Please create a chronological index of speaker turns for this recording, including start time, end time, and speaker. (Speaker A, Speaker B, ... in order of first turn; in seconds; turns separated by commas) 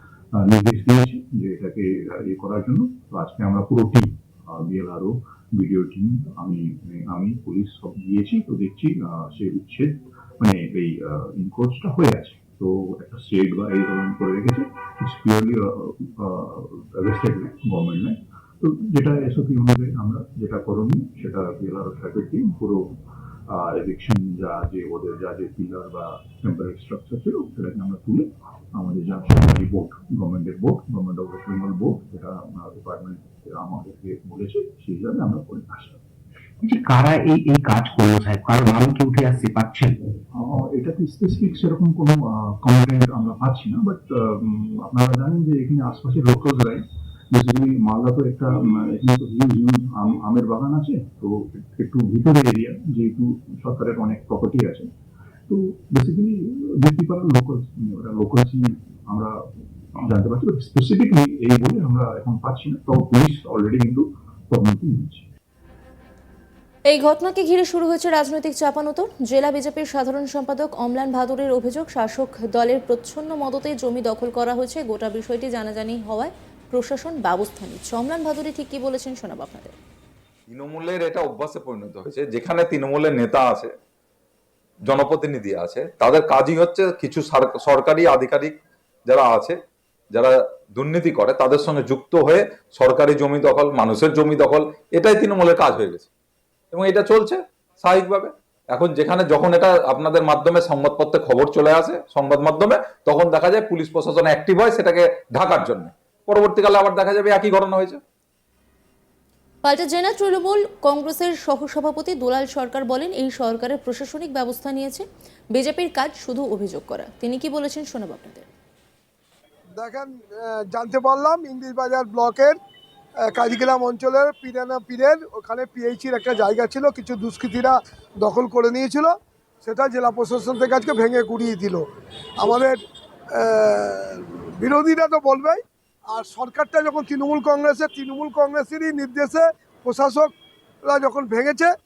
Speaker A: 0.3-22.9, Speaker A: 23.5-36.0, Speaker B: 36.6-40.1, Speaker A: 40.3-54.9, Speaker A: 55.5-59.4, Speaker A: 59.9-65.2, Speaker C: 66.9-79.8, Speaker D: 80.5-83.7, Speaker D: 84.8-88.5, Speaker D: 89.0-89.6, Speaker D: 90.1-96.1, Speaker D: 96.7-108.0, Speaker C: 109.6-118.5, Speaker E: 119.8-122.6, Speaker E: 123.3-131.8, Speaker E: 132.4-132.8, Speaker E: 133.3-140.3, Speaker E: 140.8-141.7